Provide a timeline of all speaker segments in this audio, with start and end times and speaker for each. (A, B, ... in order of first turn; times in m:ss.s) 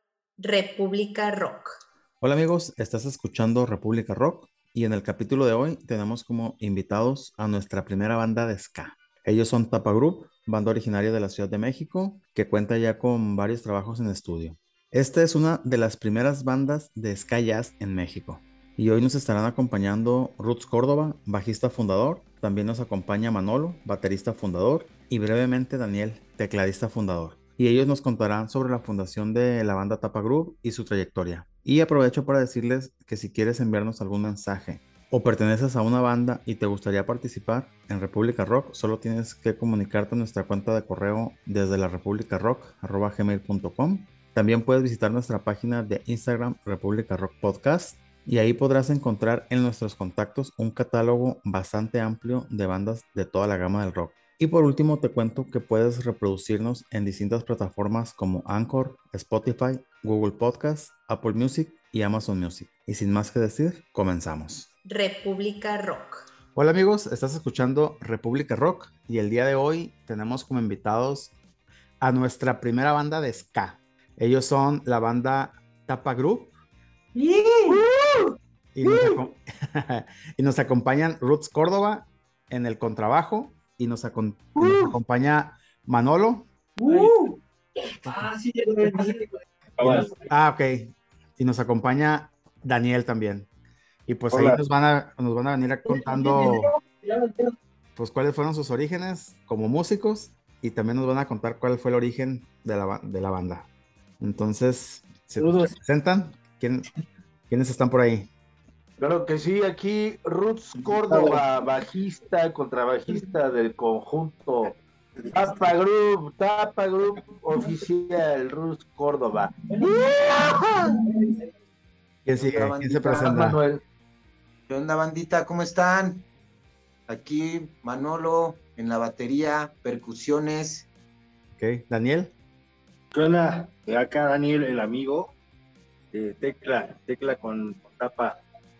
0:00.4-0:01.8 A
0:02.2-1:04.7 B
1:04.9-1:06.2 A
1:06.6-1:11.3 B
1:12.0-1:16.5 B
1:17.2-1:17.9 C
1:18.8-1:26.5 B
1:18.8-1:19.1 C
1:24.6-1:24.9 C
1:26.9-1:27.3 C
1:26.9-1:27.1 D
1:28.0-1:29.2 D
1:29.8-1:30.2 D
1:30.3-1:33.5 B
1:34.1-1:36.7 B
1:34.3-1:34.6 C
1:35.9-1:37.5 D
1:38.0-1:43.7 B
1:44.2-1:46.8 B
1:45.4-1:45.8 D
1:47.5-1:48.3 B
1:49.0-1:54.8 C
1:50.9-1:51.4 D
1:55.2-1:55.7 D
1:55.3-2:00.9 C
2:02.2-2:03.6 B
2:02.4-2:03.4 E
2:03.0-2:03.8 C
2:04.7-2:06.2 E
2:07.1-2:10.9 E
2:11.6-2:12.3 B
2:13.1-2:15.3 D
2:16.1-2:18.4 D